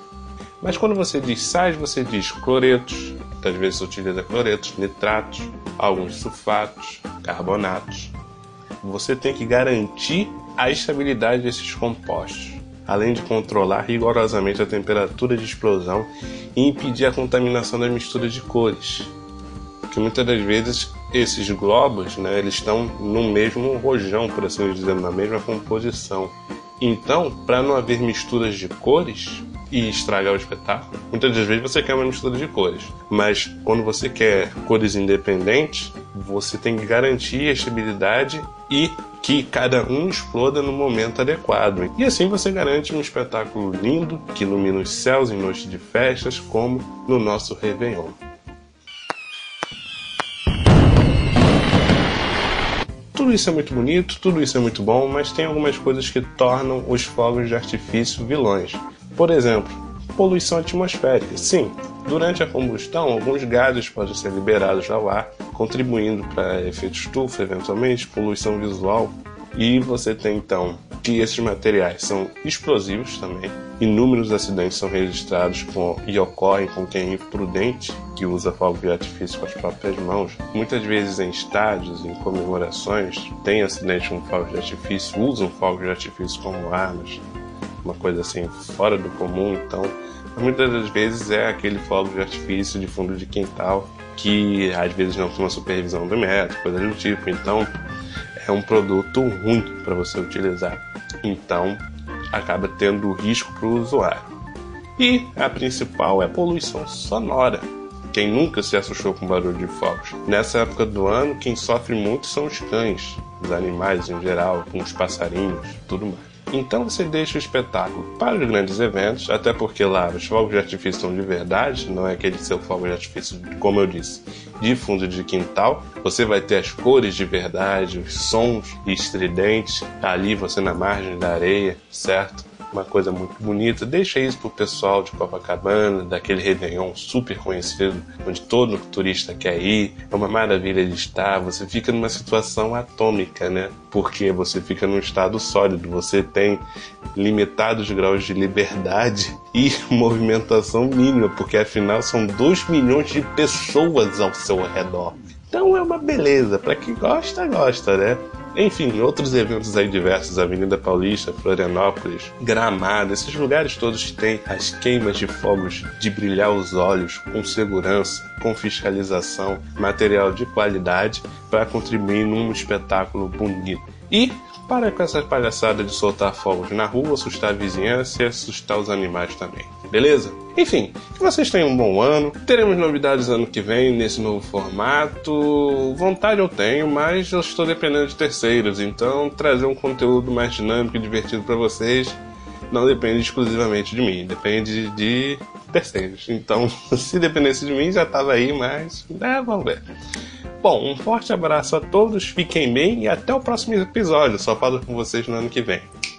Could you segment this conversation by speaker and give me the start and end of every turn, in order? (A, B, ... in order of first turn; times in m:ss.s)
0:00.6-0:08.1 A
0:08.8-0:19.1 A
0:19.9-0:48.2 A
0:53.1-1:27.2 A
1:27.8-1:37.7 A
1:38.4-1:44.3 A
1:45.0-2:26.6 A
2:27.1-3:19.8 A
3:20.6-3:25.9 A